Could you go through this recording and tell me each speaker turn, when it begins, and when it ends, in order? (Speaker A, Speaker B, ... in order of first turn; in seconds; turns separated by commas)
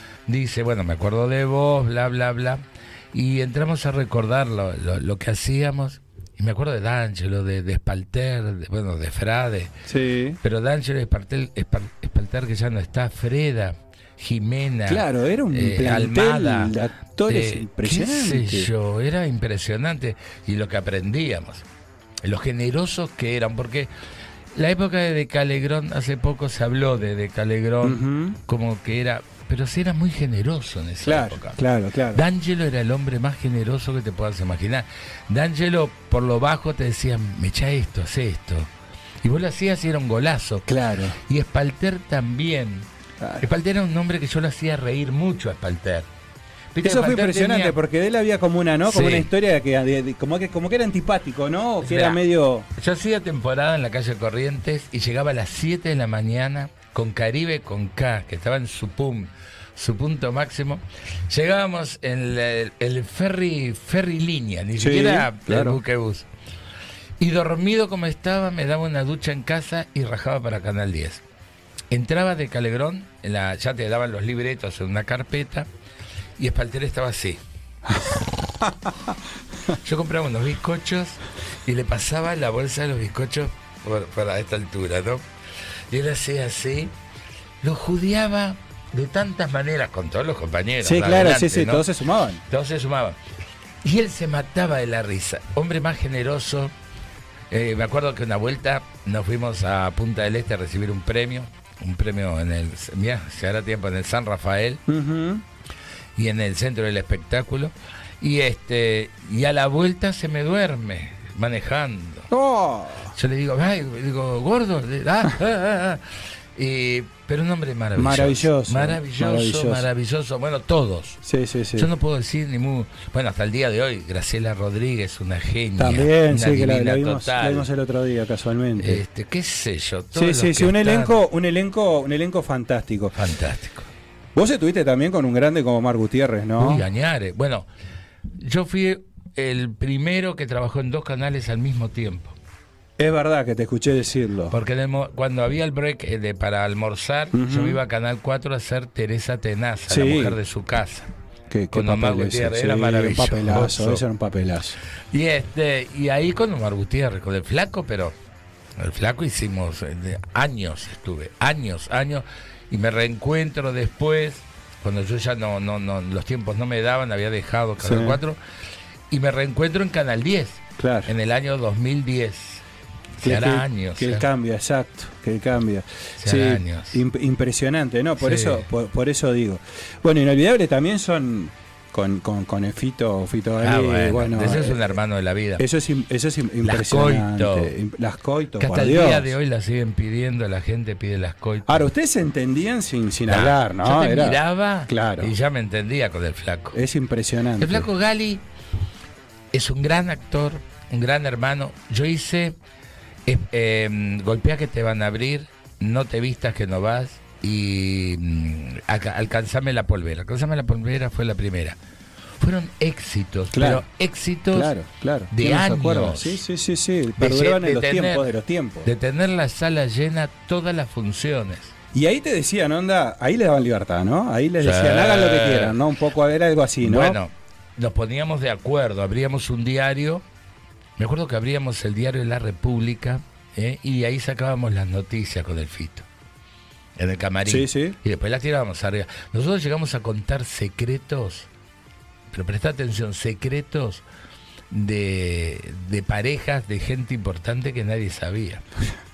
Speaker A: 0.3-9.7, Speaker B: 9.9-10.4, Speaker A: 10.4-21.6, Speaker B: 14.9-18.7, Speaker A: 22.2-23.9, Speaker A: 24.5-31.6, Speaker B: 27.8-28.4, Speaker B: 31.0-32.2, Speaker A: 32.1-38.7, Speaker A: 39.2-40.7, Speaker B: 40.7-41.2, Speaker A: 41.2-42.9, Speaker B: 43.2-43.5, Speaker A: 43.4-46.1, Speaker A: 46.7-47.8, Speaker B: 46.8-52.7, Speaker A: 48.9-49.3, Speaker A: 51.8-52.2, Speaker A: 52.8-66.3, Speaker B: 64.8-65.8, Speaker A: 67.2-71.2, Speaker A: 71.9-75.7, Speaker A: 76.4-77.4, Speaker B: 78.6-78.9, Speaker A: 79.8-85.2, Speaker A: 85.9-86.9, Speaker A: 87.6-91.8, Speaker B: 90.8-92.4, Speaker A: 92.5-93.2, Speaker A: 93.8-96.7, Speaker A: 97.5-104.8, Speaker B: 104.9-105.4, Speaker A: 106.2-112.3, Speaker B: 112.3-113.1, Speaker A: 113.1-116.0, Speaker A: 116.5-121.2, Speaker B: 118.0-119.9, Speaker B: 121.2-121.9, Speaker A: 121.8-127.7, Speaker B: 125.8-129.0, Speaker A: 128.8-131.1, Speaker B: 130.1-133.2, Speaker A: 133.1-133.9, Speaker B: 134.3-136.8, Speaker A: 136.6-137.7, Speaker A: 138.4-142.4, Speaker B: 143.0-144.5, Speaker A: 144.5-151.1, Speaker B: 147.3-147.8, Speaker B: 149.9-150.4, Speaker B: 151.5-154.8, Speaker A: 151.7-154.0, Speaker A: 155.1-158.1, Speaker A: 158.8-168.4, Speaker B: 167.8-168.2, Speaker A: 169.1-172.6, Speaker B: 170.8-171.1, Speaker A: 173.2-174.2, Speaker B: 173.2-184.9, Speaker A: 176.2-177.0, Speaker A: 178.2-178.6, Speaker A: 183.6-185.6, Speaker B: 185.6-189.3, Speaker A: 186.6-187.7, Speaker A: 188.6-191.8, Speaker B: 191.7-195.3, Speaker A: 193.3-196.8, Speaker B: 196.7-197.9, Speaker A: 197.6-198.4, Speaker A: 199.5-202.6, Speaker A: 203.2-211.8, Speaker A: 212.4-214.7, Speaker B: 213.5-213.8, Speaker B: 214.5-218.9, Speaker A: 215.3-216.4, Speaker A: 217.2-218.2, Speaker A: 218.8-221.7, Speaker B: 221.9-227.2, Speaker A: 224.6-225.8, Speaker A: 226.8-230.2, Speaker A: 231.0-236.1, Speaker A: 237.0-241.5, Speaker B: 237.4-237.9, Speaker A: 242.3-244.0, Speaker A: 244.7-248.6